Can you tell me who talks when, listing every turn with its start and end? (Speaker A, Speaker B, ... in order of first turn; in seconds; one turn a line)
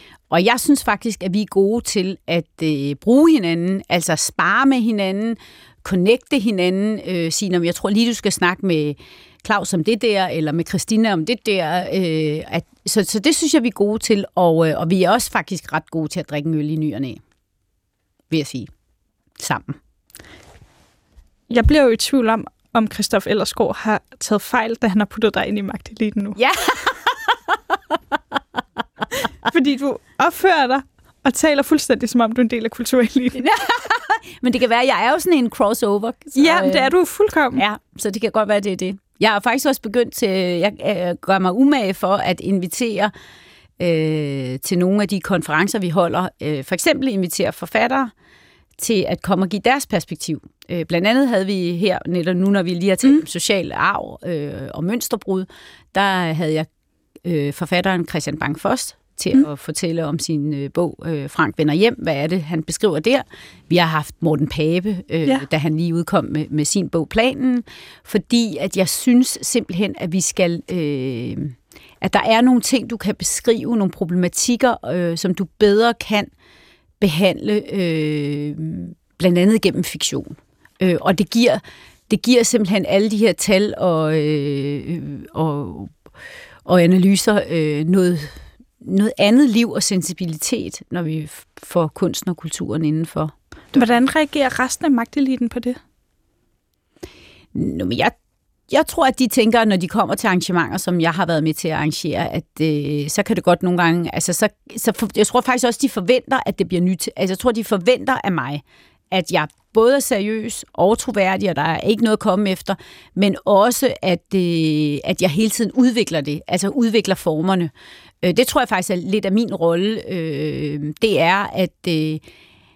Speaker A: 0.3-17.2
Speaker A: 18.3-18.7
Speaker A: 19.4-19.8
Speaker B: 21.5-26.4
Speaker A: 26.4-28.2
Speaker B: 29.4-33.5
Speaker A: 33.4-36.9
Speaker B: 36.4-37.6
Speaker A: 37.5-43.1
Speaker A: 43.8-48.1
Speaker A: 48.8-56.7
Speaker A: 57.2-76.3
Speaker A: 77.0-86.0
Speaker A: 86.7-93.8
Speaker B: 93.7-95.8
Speaker A: 97.5-98.2
Speaker A: 98.7-122.2